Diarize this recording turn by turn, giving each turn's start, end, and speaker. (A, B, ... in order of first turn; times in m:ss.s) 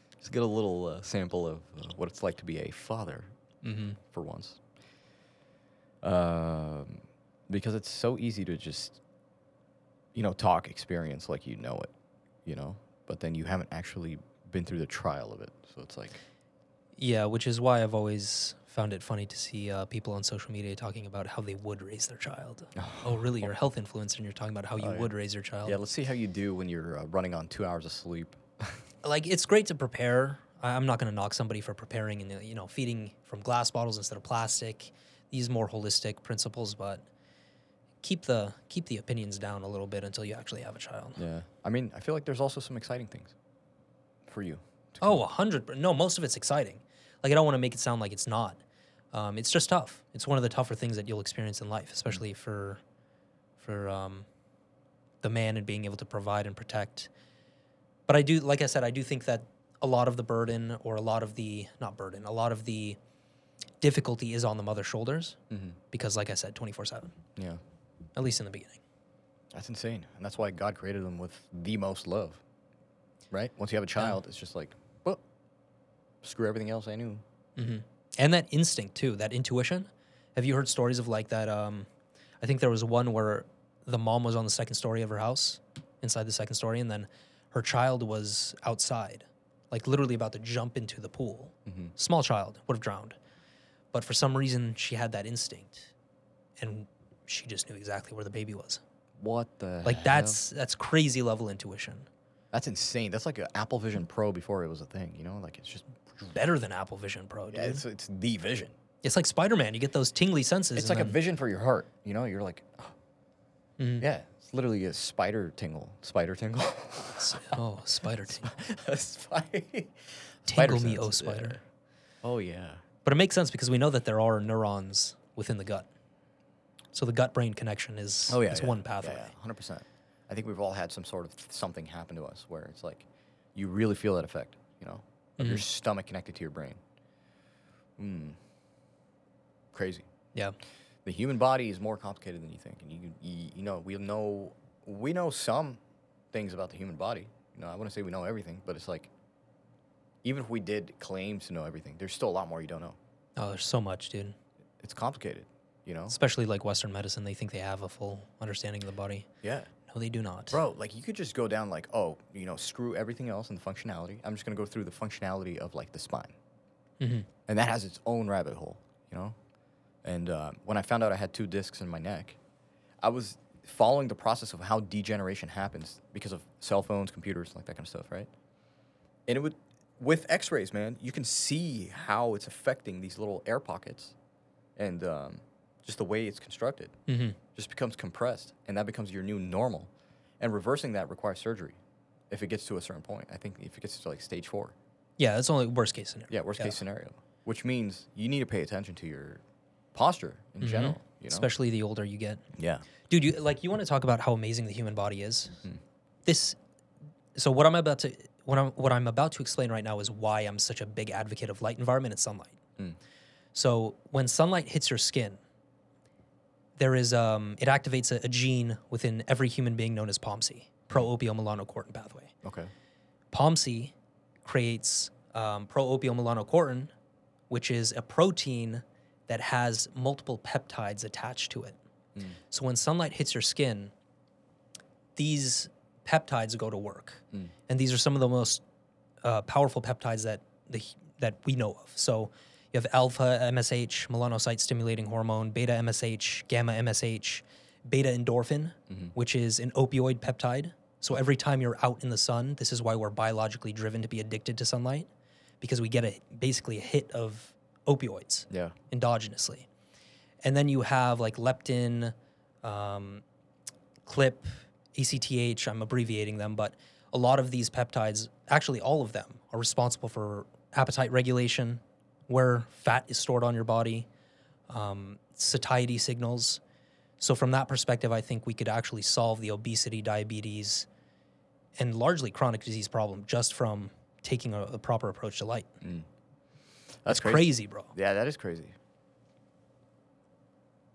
0:00.2-0:03.3 A
0:03.6-0:04.0 B
0:04.0-0:04.6 A
0:06.0-0:09.0 A
0:10.2-0:11.9 A
0:12.4-0:16.2 A
0:17.0-0:25.8 B
0:22.8-0:23.5 A
0:24.8-0:25.1 A
0:25.6-0:28.8 A
0:29.0-0:37.0 B
0:38.0-0:41.2 B
0:41.2-0:43.4 A
0:44.3-0:45.2 A
0:45.0-0:48.6 B
0:49.1-0:52.8 B
0:53.6-0:54.3 B
0:55.2-0:57.1 B
0:58.1-1:03.0 B
1:03.8-1:05.4 B
1:05.5-1:05.8 A
1:05.9-1:07.2 B
1:08.2-1:08.8 B
1:09.5-1:12.4 A
1:13.3-1:15.2 A
1:16.2-1:17.2 A
1:17.6-1:21.9 B
1:22.4-1:33.2 B
1:31.7-1:31.9 A
1:33.9-1:35.9 B
1:36.6-1:38.8 B
1:39.2-1:40.4 A
1:39.8-1:42.1 B
1:42.5-1:46.4 A
1:46.3-1:47.8 B
1:47.5-1:48.8 A
1:49.0-1:51.2 B
1:50.8-1:52.9 A
1:53.8-1:54.0 B
1:54.0-1:57.6 A
1:57.2-1:58.5 B
1:58.3-2:01.6 A
2:00.5-2:01.6 B
2:02.2-2:02.8 A
2:03.0-2:05.9 B
2:06.9-2:09.3 B
2:08.3-2:16.8 A
2:15.4-2:15.6 B
2:18.0-2:18.4 A
2:19.7-2:20.1 A
2:21.0-2:25.8 A
2:26.3-2:29.1 A
2:30.2-2:33.0 A
2:33.4-2:34.4 B
2:34.8-2:36.2 A
2:36.1-2:39.3 B
2:39.4-2:39.7 A
2:39.9-2:40.6 B
2:40.5-2:46.3 A
2:47.0-2:47.3 B
2:47.5-2:49.4 A
2:50.0-2:52.4 A
2:53.0-2:58.3 A
2:59.3-3:04.2 A
3:04.8-3:07.0 A
3:07.1-3:07.4 B
3:07.5-3:11.8 A
3:12.3-3:14.8 A
3:15.2-3:16.8 B
3:16.3-3:19.4 A
3:19.9-3:21.5 A
3:20.6-3:22.4 B
3:22.6-3:22.9 A
3:23.1-3:25.7 B
3:26.2-3:26.6 B
3:27.4-3:32.6 B
3:33.5-3:35.4 B
3:36.8-3:42.3 B
3:42.4-3:42.7 A
3:43.3-3:46.9 B
3:47.5-3:51.8 B
3:52.5-3:53.9 B
3:55.2-3:58.6 B
3:59.2-4:15.1 B
4:08.9-4:09.1 A
4:15.6-4:19.7 B
4:18.5-4:18.8 A
4:20.4-4:23.2 B
4:24.0-4:34.1 B
4:34.7-4:36.6 B
4:37.2-4:40.9 B
4:41.8-4:45.7 B
4:47.0-4:48.8 A
4:47.1-4:47.9 B